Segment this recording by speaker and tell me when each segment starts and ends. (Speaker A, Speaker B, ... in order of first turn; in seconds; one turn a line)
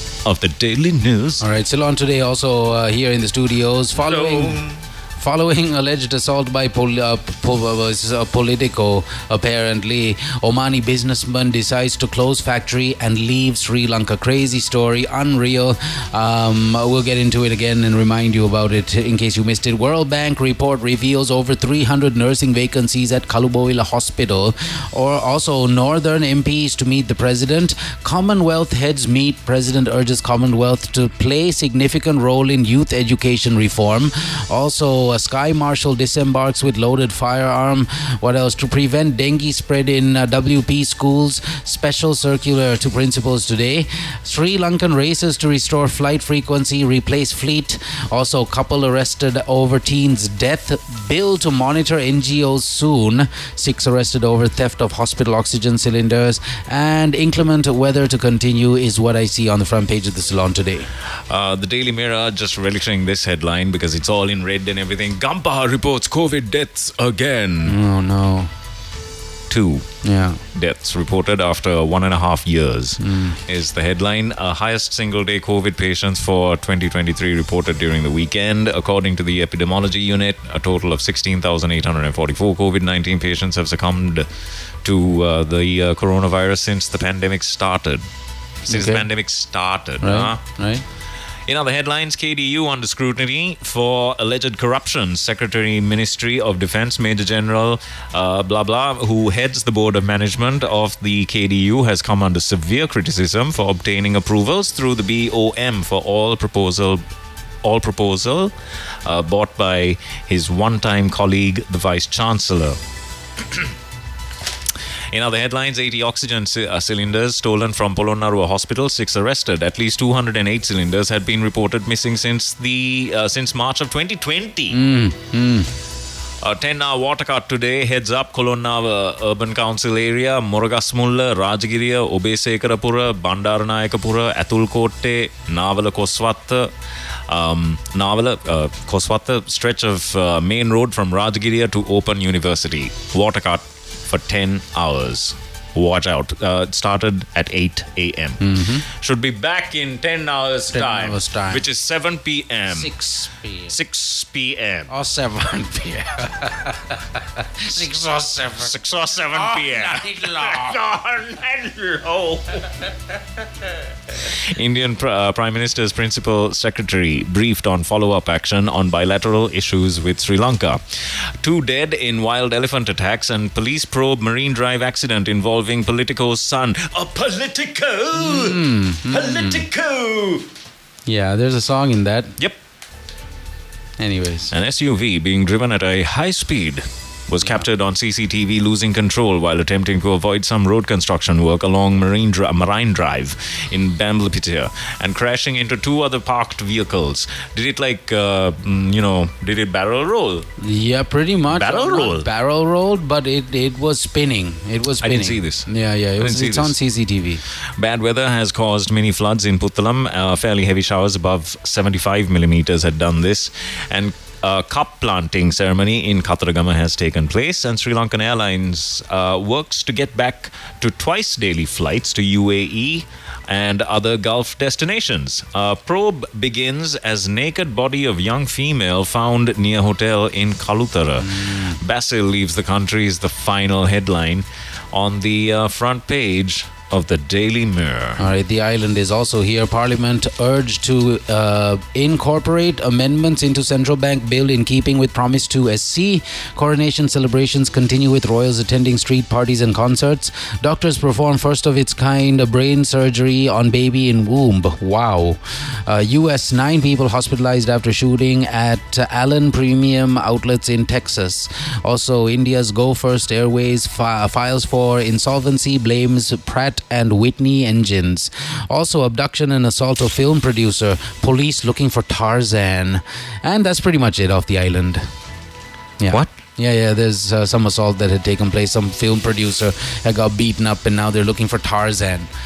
Speaker A: 0.2-1.4
Speaker B: 1.4-4.6
Speaker A: 4.0-4.8
Speaker B: 5.2-60.9
Speaker A: 61.3-67.8
Speaker B: 67.7-68.5
Speaker A: 69.5-69.9
Speaker B: 70.0-70.4
Speaker A: 70.5-84.3
Speaker B: 73.0-73.4
Speaker A: 84.8-88.0
Speaker A: 88.7-90.4
Speaker B: 88.7-89.1
Speaker B: 90.0-90.8
Speaker A: 91.5-107.0
Speaker A: 107.6-108.5
Speaker A: 109.0-112.8
Speaker A: 113.4-113.7
Speaker A: 115.1-124.8
Speaker B: 124.7-125.7
Speaker A: 126.4-136.7
Speaker A: 137.3-152.9
Speaker B: 148.4-148.9
Speaker B: 150.7-151.6
Speaker B: 152.7-153.7
Speaker A: 153.7-154.9
Speaker B: 154.9-158.7
Speaker A: 158.6-162.8
Speaker B: 159.3-160.8
Speaker A: 164.1-180.5
Speaker B: 178.2-179.7
Speaker B: 181.1-182.3
Speaker B: 184.0-184.5
Speaker A: 184.5-200.5
Speaker B: 200.6-207.4
Speaker A: 201.5-202.3
Speaker A: 205.0-206.8
Speaker A: 207.8-238.3
Speaker B: 231.2-231.8
Speaker B: 238.2-275.1
Speaker B: 276.0-282.3